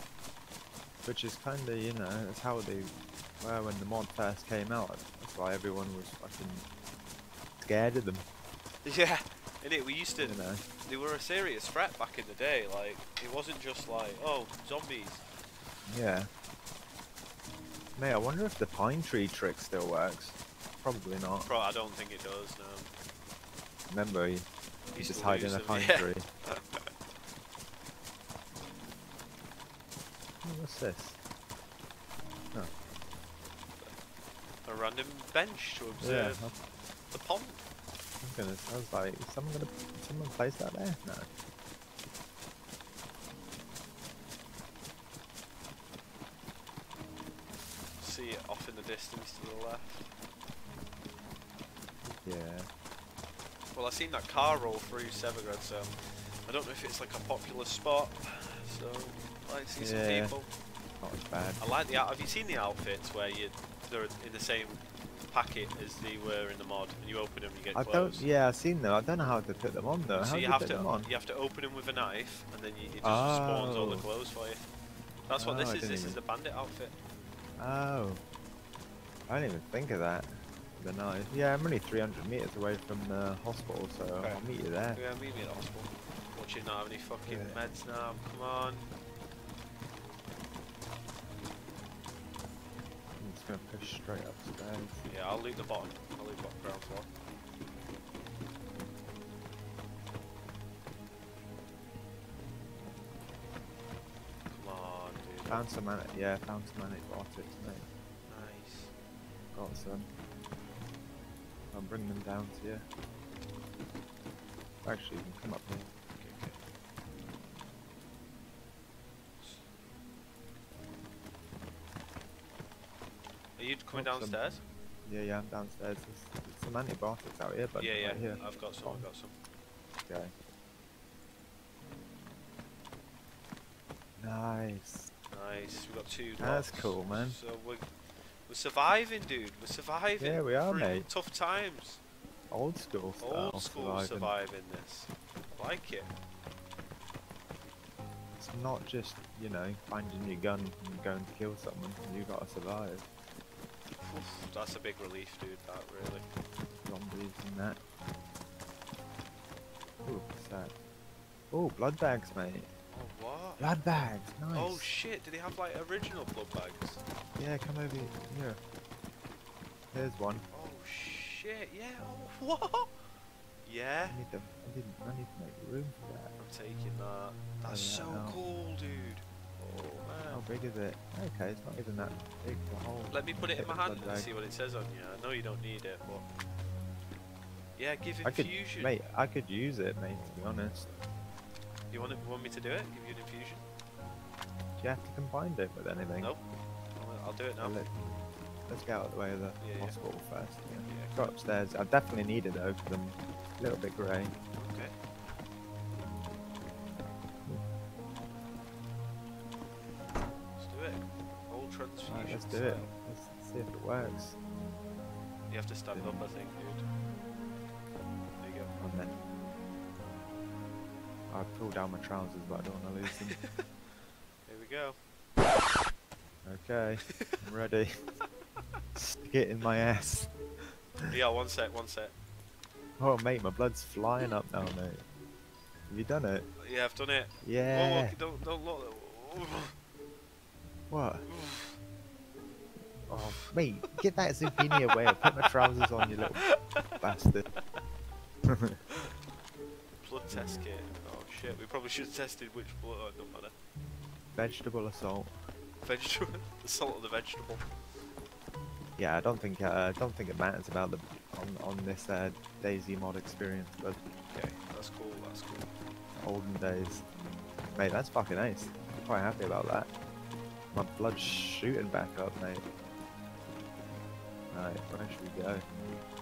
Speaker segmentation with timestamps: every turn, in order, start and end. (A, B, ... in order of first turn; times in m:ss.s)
0:01.0-0:06.7 A
0:07.6-0:08.3 A
0:08.8-0:15.2 B
0:10.2-0:10.6 A
0:15.9-0:16.3 A
0:18.0-0:21.5 A
0:21.4-0:22.9 B
0:23.9-0:26.3 A
0:24.9-0:26.9 B
0:30.4-0:31.2 A
0:34.6-0:36.5 B
0:36.0-0:36.6 A
0:37.1-0:37.6 B
0:38.2-0:41.3 A
0:48.0-0:50.1 B
0:52.2-0:52.7 A
0:53.7-1:00.5 B
0:59.8-1:00.3 A
1:01.0-1:01.6 A
1:01.6-1:08.3 B
1:07.7-1:11.1 A
1:10.2-1:14.6 B
1:13.0-1:14.1 A
1:15.3-1:17.0 B
1:15.4-1:16.2 A
1:17.6-1:18.2 A
1:19.3-1:25.0 A
1:25.0-1:28.9 B
1:27.3-1:27.6 A
1:33.2-1:35.1 A
1:35.1-1:37.1 B
1:44.5-1:45.7 B
1:45.5-1:47.9 A
1:48.3-1:48.9 B
1:49.5-1:50.1 A
1:51.7-1:52.8 A
1:54.8-1:55.9 A
1:56.2-1:56.6 B
2:03.6-2:04.6 B
2:03.9-2:04.4 A
2:05.0-2:09.1 A
2:07.8-2:09.4 B
2:10.1-2:10.3 A
2:14.2-2:15.1 A
2:15.3-2:22.0 B
2:16.4-2:17.4 A
2:20.2-2:21.1 A
2:22.5-2:24.3 A
2:23.2-2:26.1 B
2:28.4-2:33.1 A
2:34.0-2:36.2 B
2:36.8-2:37.8 A
2:40.0-2:40.7 A
2:41.5-2:42.7 A
2:42.9-2:43.7 B
2:43.6-2:44.9 A
2:44.5-2:47.0 B
2:47.4-2:48.6 A
2:49.9-2:50.5 A
2:50.5-2:53.0 B
2:53.6-2:54.2 B
2:54.1-2:56.3 A
2:56.4-3:00.5 B
2:57.7-2:58.4 A
3:00.3-3:04.3 A
3:03.1-3:06.2 B
3:07.8-3:09.0 B
3:08.2-3:10.8 A
3:10.3-3:11.1 B
3:11.9-3:13.6 B
3:14.8-3:16.3 A
3:17.0-3:17.8 B
3:17.6-3:17.9 A
3:18.7-3:24.3 A
3:19.6-3:20.0 B
3:20.9-3:21.4 B
3:24.6-3:24.9 B
3:30.6-3:32.9 B
3:32.1-3:34.4 A
3:35.5-3:36.9 B
3:35.9-3:36.3 A
3:38.4-3:38.7 B
3:38.8-3:39.2 A
3:41.3-3:43.4 A
3:43.1-3:43.6 B
3:44.5-3:45.0 B
3:46.4-3:48.1 A
3:49.0-3:50.3 A
3:51.1-3:52.1 B
3:53.0-3:55.0 A
3:55.9-3:56.5 A
3:56.6-3:59.7 B
3:57.4-3:58.2 A
4:00.9-4:01.3 A
4:01.3-4:01.8 B
4:03.1-4:03.6 B
4:03.1-4:06.4 A
4:04.6-4:07.0 B
4:07.0-4:07.5 A
4:08.5-4:08.8 A
4:10.0-4:13.5 B
4:10.3-4:10.6 A
4:14.4-4:15.4 A
4:15.8-4:17.7 B
4:19.0-4:24.0 A
4:24.3-4:25.7 B
4:26.2-4:27.0 A
4:27.7-4:29.9 A
4:30.7-4:32.6 A
4:34.5-4:35.7 A